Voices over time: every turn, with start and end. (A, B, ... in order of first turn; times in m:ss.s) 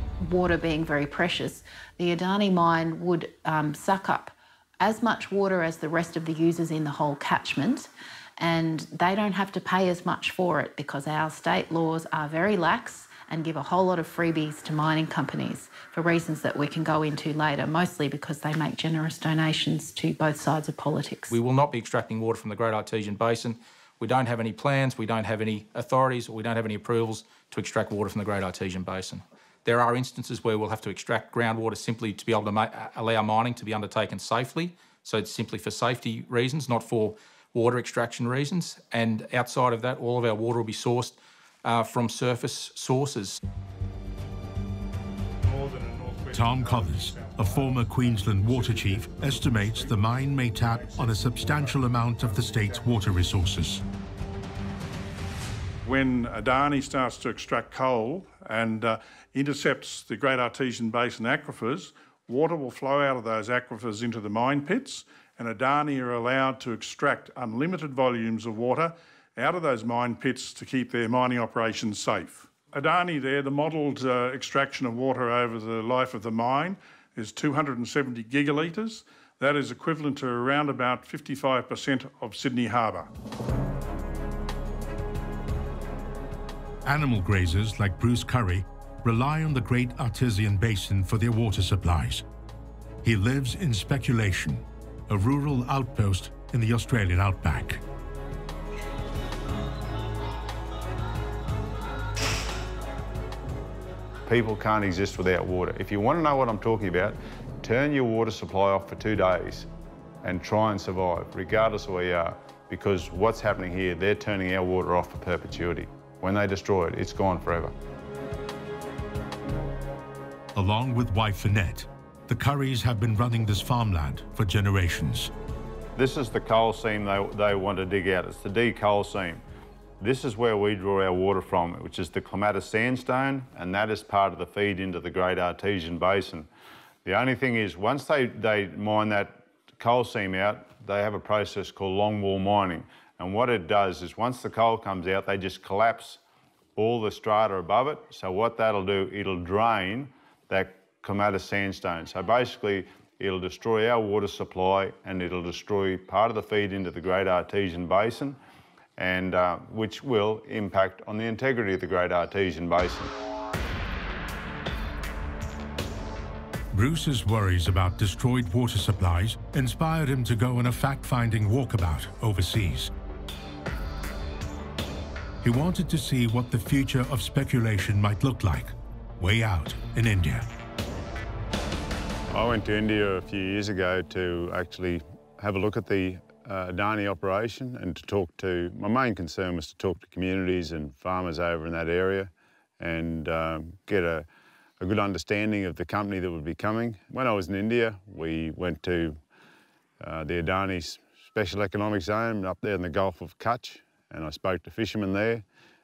0:00.2-0:21.3 A
0:21.3-0:43.4 B
0:45.5-0:47.8 C
0:46.3-0:53.8 D
0:48.4-0:49.8 C
0:50.7-0:52.7 C
0:55.8-1:23.1 C
1:26.8-1:32.2 D
1:33.0-1:37.8 D
1:44.3-1:49.7 E
1:50.2-1:57.7 E
2:00.6-2:05.3 D
2:06.0-2:09.4 E
2:10.0-2:16.5 E
2:17.0-2:26.2 E
2:26.8-2:38.4 E
2:39.0-2:43.1 E
2:46.7-2:52.9 D
2:55.4-3:00.5 D
3:02.3-3:14.3 E
3:14.8-3:19.2 E
3:20.0-3:25.4 E